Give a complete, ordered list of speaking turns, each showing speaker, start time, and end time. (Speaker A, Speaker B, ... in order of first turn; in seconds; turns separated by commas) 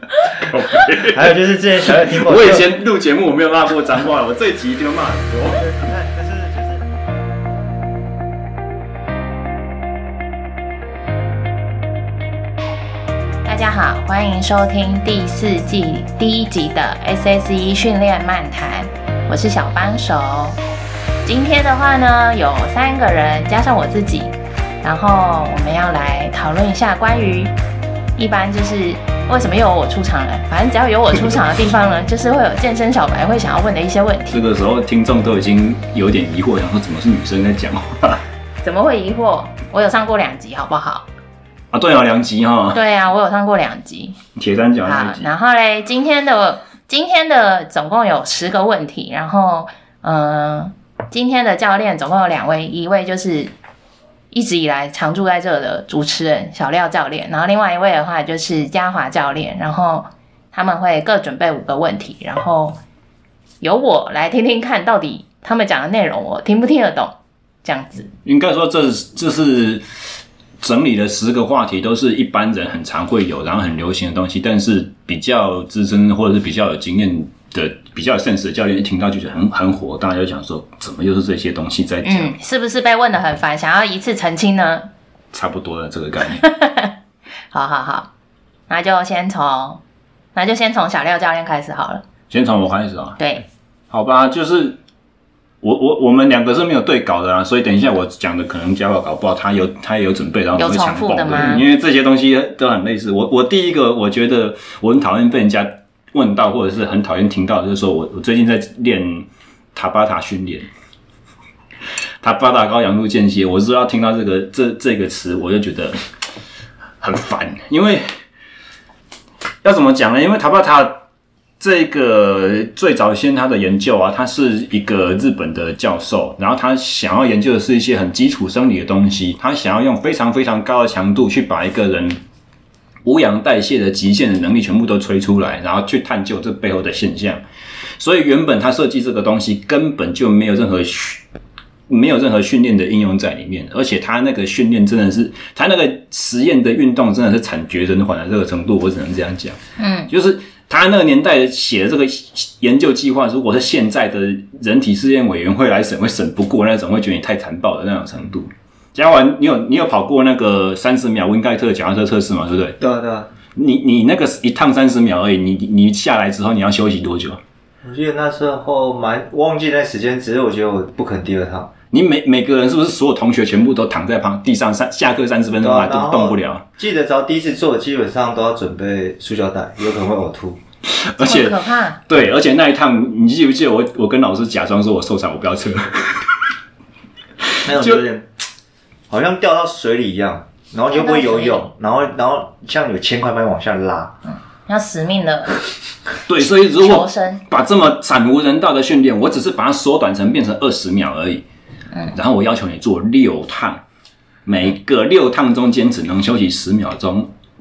Speaker A: 0.4-1.4, Speaker B: 1.1-2.7, Speaker A: 1.9-5.7, Speaker B: 5.5-6.8, Speaker C: 13.4-20.6, Speaker C: 21.2-27.5, Speaker C: 28.2-34.4, Speaker A: 34.3-38.2, Speaker C: 38.6-41.0, Speaker A: 41.7-42.8, Speaker C: 42.7-44.2, Speaker A: 44.4-45.3, Speaker C: 44.8-53.5, Speaker C: 54.3-62.8, Speaker C: 63.6-68.1, Speaker A: 68.2-69.8, Speaker A: 70.6-82.3, Speaker C: 82.0-84.9, Speaker A: 85.3-86.5, Speaker C: 86.3-86.9, Speaker C: 87.5-88.1, Speaker C: 88.7-89.8, Speaker C: 90.3-92.0, Speaker A: 92.3-93.2, Speaker C: 93.2-93.4, Speaker A: 93.9-94.8, Speaker A: 95.6-110.7, Speaker C: 100.5-101.6, Speaker A: 112.2-116.0, Speaker A: 117.0-118.0, Speaker A: 119.6-121.0, Speaker A: 121.6-132.2, Speaker A: 133.0-137.4, Speaker A: 138.0-141.2, Speaker A: 141.9-162.8, Speaker C: 149.8-150.1, Speaker B: 162.8-163.3, Speaker A: 163.5-167.4, Speaker B: 167.8-171.7, Speaker A: 171.9-176.6, Speaker B: 175.6-180.6, Speaker A: 180.9-186.4, Speaker C: 181.2-182.0, Speaker B: 187.6-188.2, Speaker B: 189.1-194.2, Speaker C: 190.9-191.7, Speaker C: 194.3-195.6, Speaker A: 196.3-201.4, Speaker C: 196.4-197.4, Speaker A: 202.1-203.8, Speaker A: 204.4-207.3